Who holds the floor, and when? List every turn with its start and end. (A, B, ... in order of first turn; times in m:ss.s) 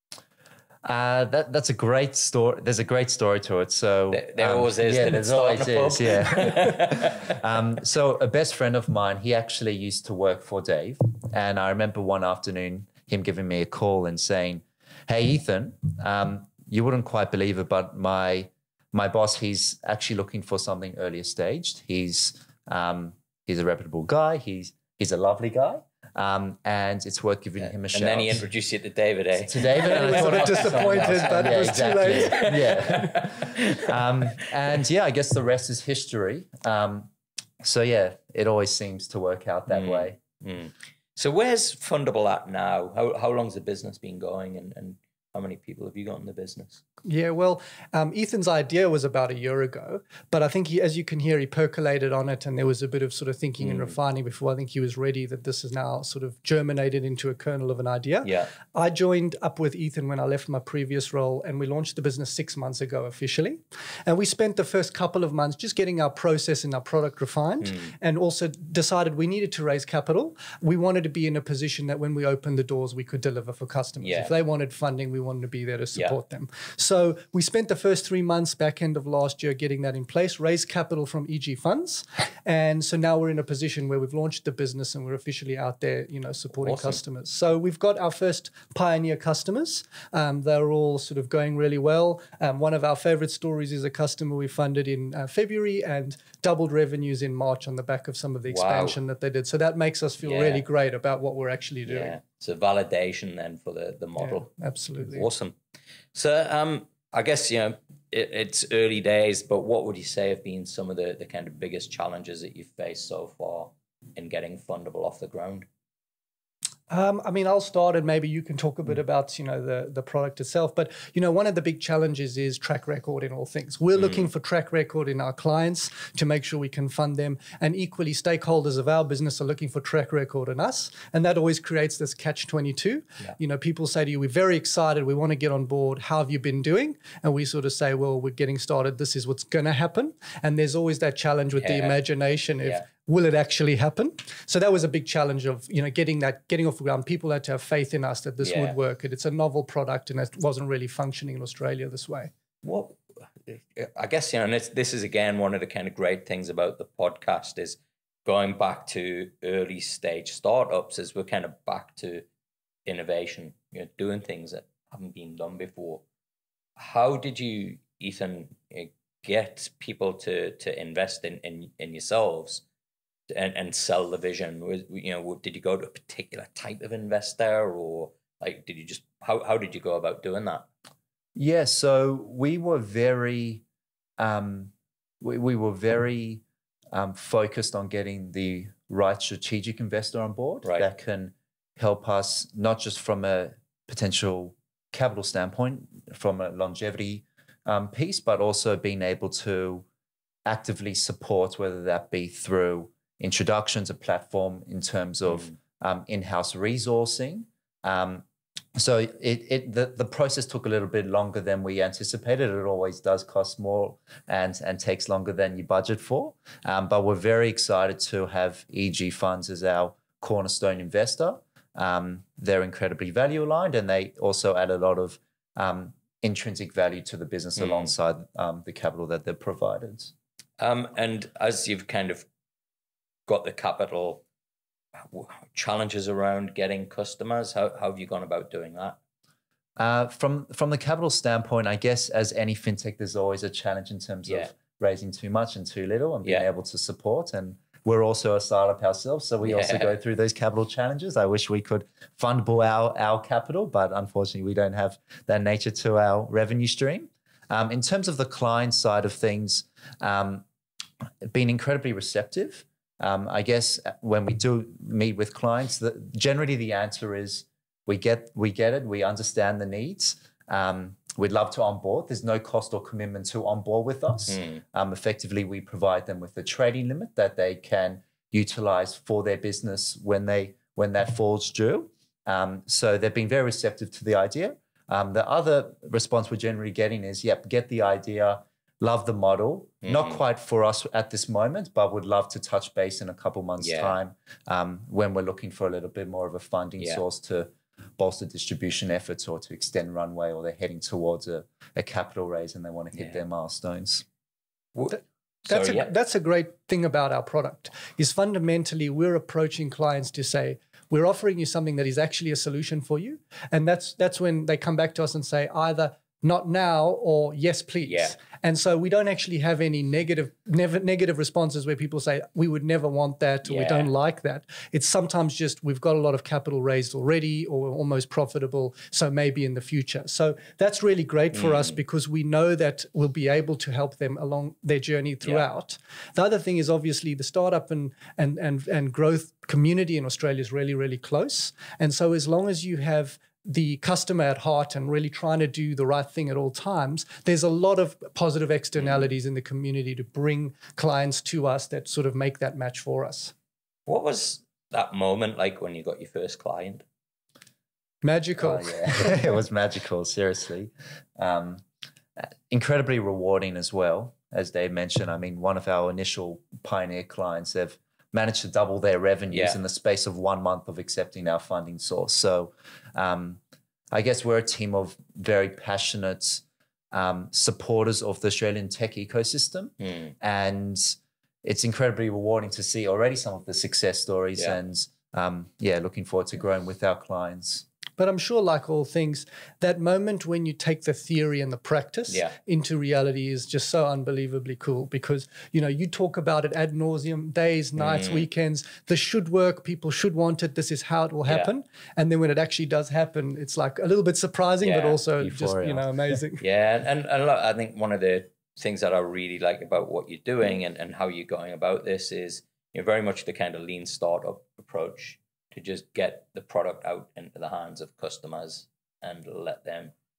0:00.8-0:28.4 A
0:04.1-0:07.4 B
0:27.9-0:34.5 B
0:29.4-0:40.2 A
0:29.7-0:32.6 C
0:39.7-0:46.8 B
0:47.0-1:42.2 C
0:53.6-0:53.9 B
0:58.2-0:58.5 B
1:07.6-1:07.9 B
1:14.0-1:14.3 B
1:26.6-1:27.0 B
1:38.5-1:39.0 B
1:40.2-1:40.6 B
1:41.9-1:45.6 B
1:44.2-1:45.3 C
1:46.1-1:55.7 B
1:56.9-2:32.3 C
2:04.0-2:04.3 B
2:21.6-2:22.0 B
2:28.4-2:28.8 B
2:32.6-2:42.2 B
2:42.8-2:46.0 B
2:46.8-2:52.6 B
2:53.3-3:00.6 B
3:01.4-3:03.6 A
3:04.2-3:19.8 A
3:20.4-3:28.2 A
3:25.3-3:25.5 B
3:28.8-3:50.1 A
3:47.6-3:47.9 B
3:50.6-3:52.2 B
3:53.3-3:54.2 B
3:55.0-3:59.0 B
3:59.8-4:20.4 A
4:09.4-4:09.9 B
4:21.2-5:04.0 A
4:34.3-4:34.6 B
4:49.8-4:50.2 B
4:53.6-4:54.0 B
5:02.9-5:03.2 B
5:04.7-5:05.9 B
5:05.5-5:53.3 C
5:17.8-5:18.1 B
5:23.4-5:23.9 B
5:31.3-5:31.8 B
5:48.8-5:49.1 B
5:53.9-5:56.8 B
5:58.0-5:59.3 C
5:58.4-6:01.6 A
6:02.5-6:13.4 A
6:09.3-6:09.6 B
6:13.9-6:27.6 A
6:19.8-6:20.1 B
6:28.0-6:46.4 C
6:32.1-6:32.4 B
6:37.8-6:38.3 B
6:44.6-6:45.0 B
6:45.2-6:45.9 A
6:46.4-6:59.9 B